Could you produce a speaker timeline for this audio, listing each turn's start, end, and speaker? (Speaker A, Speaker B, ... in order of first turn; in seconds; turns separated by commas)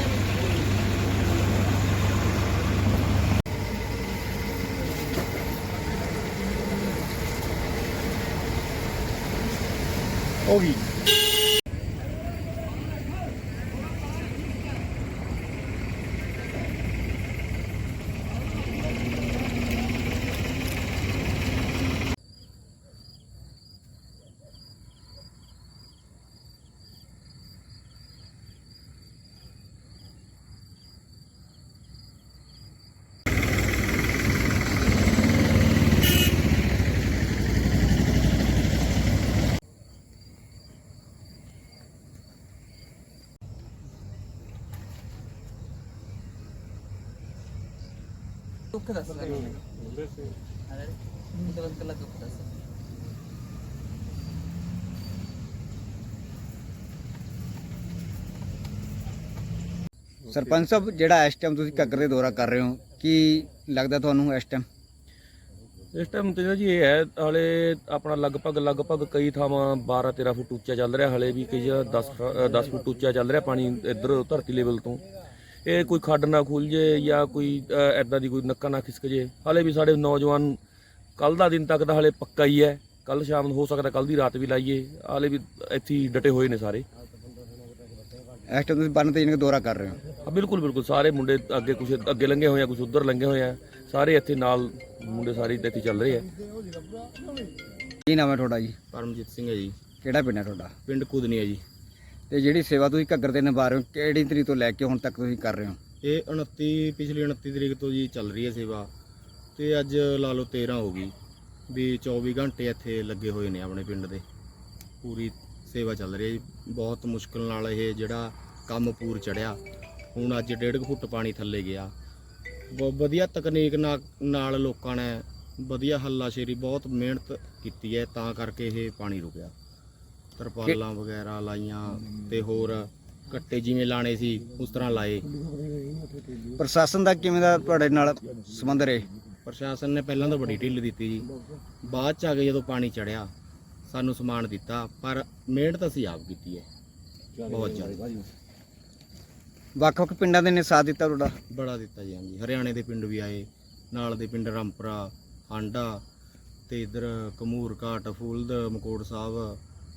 Speaker A: 48.7-49.6, Speaker A: 51.5-52.5, Speaker B: 60.2-64.7, Speaker C: 65.9-75.0, Speaker C: 75.6-80.6, Speaker C: 81.2-86.8, Speaker B: 88.5-90.0, Speaker C: 90.2-96.3, Speaker B: 98.0-98.8, Speaker D: 98.9-99.8, Speaker B: 100.0-100.7, Speaker D: 100.9-101.6, Speaker B: 102.3-105.8, Speaker D: 106.0-108.9, Speaker D: 109.6-111.1, Speaker D: 111.7-114.2, Speaker D: 115.0-119.6, Speaker D: 120.2-121.9, Speaker D: 122.7-129.5, Speaker D: 130.4-135.3, Speaker B: 136.5-139.1, Speaker D: 139.5-141.3, Speaker D: 141.8-143.3, Speaker D: 143.9-146.7, Speaker D: 147.4-148.2, Speaker B: 149.8-151.3, Speaker D: 151.5-156.0, Speaker D: 156.7-159.6